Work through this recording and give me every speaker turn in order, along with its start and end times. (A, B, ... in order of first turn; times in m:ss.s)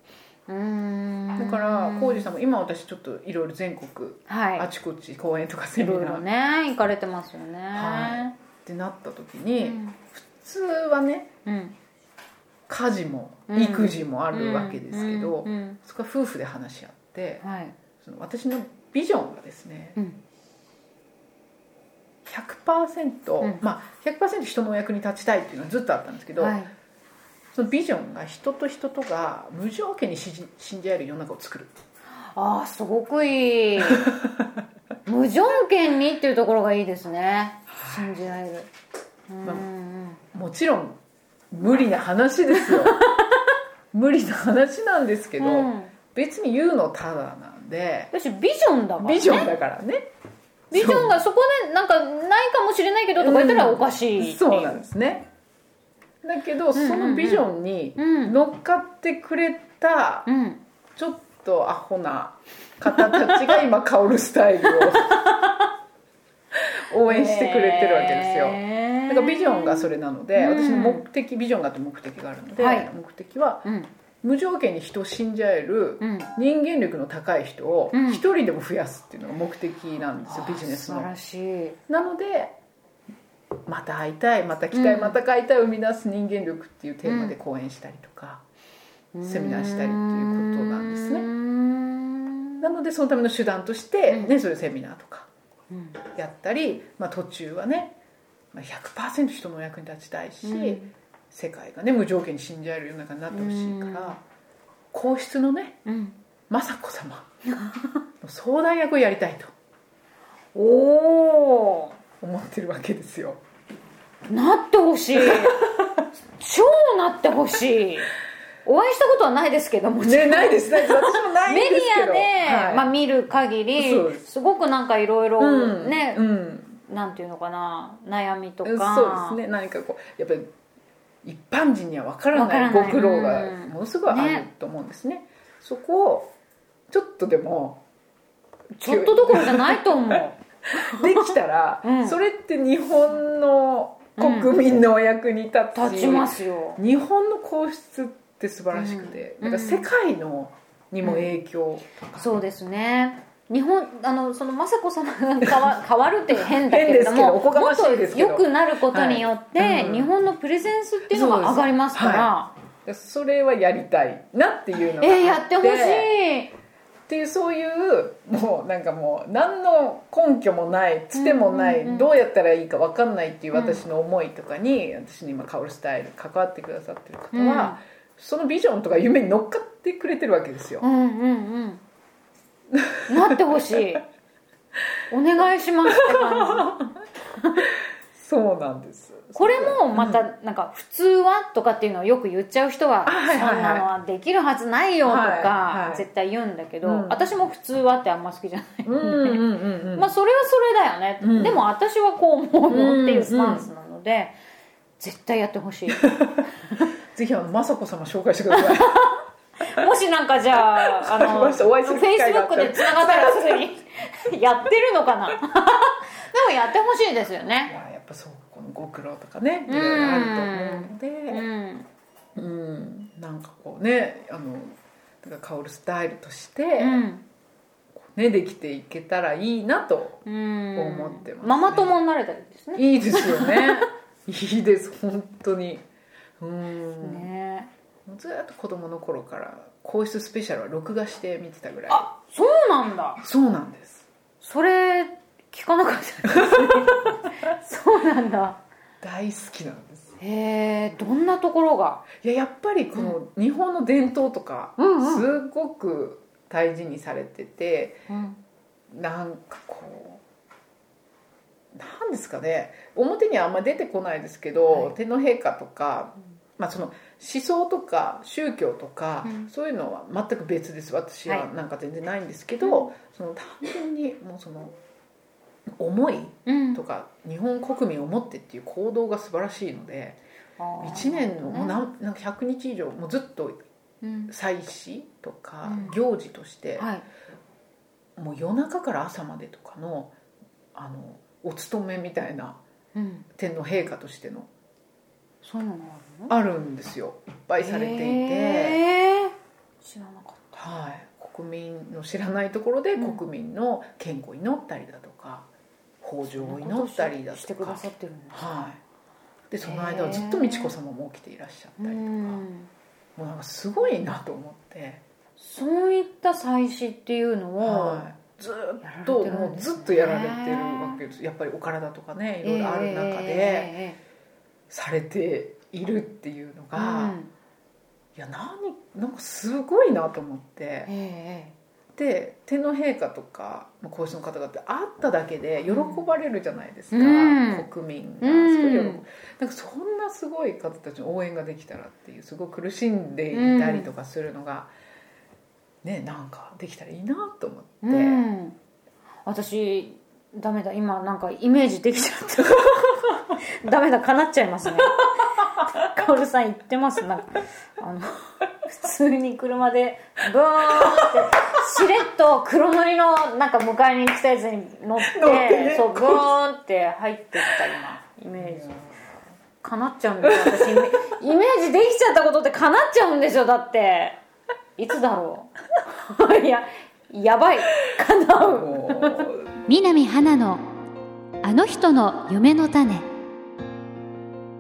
0:00.5-0:02.3 A
0:01.4-0:06.2 B
0:04.3-0:04.7 A
0:05.8-0:08.4 A
0:07.7-0:11.3 B
0:09.6-0:10.0 A
0:11.5-0:11.8 A
0:12.7-0:17.4 B
0:13.5-0:15.8 A
0:17.4-0:17.8 A
0:18.0-0:20.0 B
0:22.2-0:26.6 B
0:26.4-0:26.7 A
0:27.5-0:31.7 B
0:32.3-0:34.1 A
0:35.1-0:38.7 A
0:37.7-0:38.1 B
0:39.3-0:40.2 A
0:40.3-0:41.0 B
0:41.5-0:43.0 B
0:42.5-0:43.4 A
0:43.9-0:48.1 B
0:45.4-0:45.9 A
0:48.1-0:49.5 A
0:49.0-0:50.1 B
0:50.7-0:54.8 A
0:50.7-0:51.2 B
0:53.2-0:55.3 B
0:56.2-1:00.3 B
0:56.7-0:58.4 A
1:00.3-1:00.6 A
1:01.0-1:05.2 B
1:02.9-1:03.6 A
1:05.1-1:05.5 A
1:06.6-1:13.7 B
1:07.1-1:11.1 A
1:12.6-1:12.9 A
1:13.6-1:13.9 A
1:14.2-1:21.1 B
1:16.0-1:16.3 A
1:17.9-1:18.2 A
1:20.2-1:21.8 A
1:21.9-1:22.6 B
1:23.7-1:28.4 B
1:24.7-1:25.2 A
1:27.0-1:27.4 A
1:29.1-1:32.6 A
1:29.2-1:31.3 B
1:32.6-1:35.3 B
1:35.7-1:36.0 A
1:36.1-1:38.0 B
1:38.5-1:40.8 B
1:40.4-1:40.9 A
1:41.3-1:44.2 B
1:43.3-1:44.2 A
1:44.9-1:45.8 B
1:45.9-1:46.2 A
1:46.5-1:47.3 B
1:47.6-1:47.9 A
1:48.2-1:49.5 B
1:50.6-1:52.0 A
1:52.2-1:53.4 B
1:54.3-1:55.6 A
1:55.2-1:56.1 B
1:56.4-1:58.1 A
1:58.6-2:06.2 A
2:00.0-2:02.9 B
2:03.8-2:04.2 B
2:05.4-2:06.8 B
2:06.9-2:09.4 A
2:08.6-2:10.5 B
2:11.2-2:16.3 B
2:12.3-2:14.5 A
2:16.9-2:17.8 B
2:18.8-2:21.3 A
2:18.8-2:19.9 B
2:20.7-2:32.2 B
2:21.8-2:22.2 A
2:24.2-2:24.5 A
2:25.7-2:26.8 A
2:28.7-2:29.9 A
2:31.0-2:31.3 A
2:32.2-2:42.5 A
2:36.5-2:40.1 B
2:41.1-2:42.3 B
2:42.8-2:46.2 B
2:45.0-2:46.5 A
2:47.1-3:00.9 B
2:51.1-2:52.1 A
2:53.5-2:53.8 A
2:57.3-2:57.8 A
3:00.8-3:01.8 A
3:02.7-3:04.0 B
3:03.1-3:04.0 A
3:05.1-3:06.8 A
3:06.0-3:06.9 B
3:08.2-3:10.2 B
3:09.4-3:24.4 A
3:13.0-3:13.9 B
3:15.0-3:16.0 B
3:16.8-3:17.2 B
3:18.8-3:20.1 B
3:21.2-3:21.6 B
3:22.7-3:23.7 B
3:25.0-3:26.1 A
3:26.0-3:26.4 B
3:27.1-3:29.1 B
3:28.5-3:37.7 A
3:31.0-3:33.7 B
3:37.7-3:41.4 B
3:39.7-3:41.9 A
3:42.4-3:47.0 B
3:46.8-3:47.2 A
3:48.0-3:50.2 B
3:50.2-3:53.8 A
3:50.8-3:52.0 B
3:52.8-3:55.8 B
3:56.4-3:57.3 B
3:57.0-3:57.7 A
3:58.1-4:02.1 B
4:01.9-4:03.2 A
4:03.2-4:04.1 B
4:04.4-4:08.6 A
4:06.4-4:07.1 B
4:09.0-4:10.1 B
4:10.2-4:12.1 A
4:12.1-4:18.0 B
4:14.8-4:15.3 A
4:18.1-4:18.4 A
4:18.9-4:20.2 B
4:21.7-4:34.7 B
4:24.7-4:24.9 A
4:32.6-4:32.9 A
4:35.8-4:40.2 B
4:36.5-4:36.8 A
4:40.6-4:41.8 A
4:40.8-4:43.6 B
4:44.0-4:44.3 A
4:44.3-4:46.9 B
4:45.6-4:46.0 A
4:46.8-4:47.1 A
4:48.2-4:50.2 B
4:50.8-4:52.6 B
4:53.0-4:53.3 A
4:53.4-4:54.5 B
4:55.4-4:56.3 A
4:56.3-4:58.8 B
4:57.6-5:00.5 A
5:00.5-5:05.5 B
5:03.0-5:03.2 A
5:06.0-5:07.8 B
5:06.3-5:08.6 A
5:08.3-5:08.8 B
5:09.5-5:12.4 B
5:09.6-5:10.7 A
5:11.8-5:12.7 A
5:13.2-5:15.0 B
5:15.4-5:18.0 A
5:17.6-5:23.8 B
5:18.8-5:21.0 A
5:22.4-5:24.0 A
5:24.7-5:27.2 B
5:26.7-5:27.3 A
5:28.2-5:30.9 B
5:30.9-5:31.6 A
5:32.0-5:44.7 B
5:35.6-5:36.0 A
5:36.9-5:37.7 A
5:38.2-5:39.0 A
5:43.3-5:43.9 A
5:45.8-5:48.2 B
5:47.8-5:48.6 A
5:49.3-6:08.7 A
6:05.0-6:06.3 B
6:08.4-6:08.9 B
6:09.6-6:14.2 A
6:10.2-6:11.0 B
6:14.8-6:20.6 A
6:18.4-6:19.5 B
6:21.4-6:23.1 A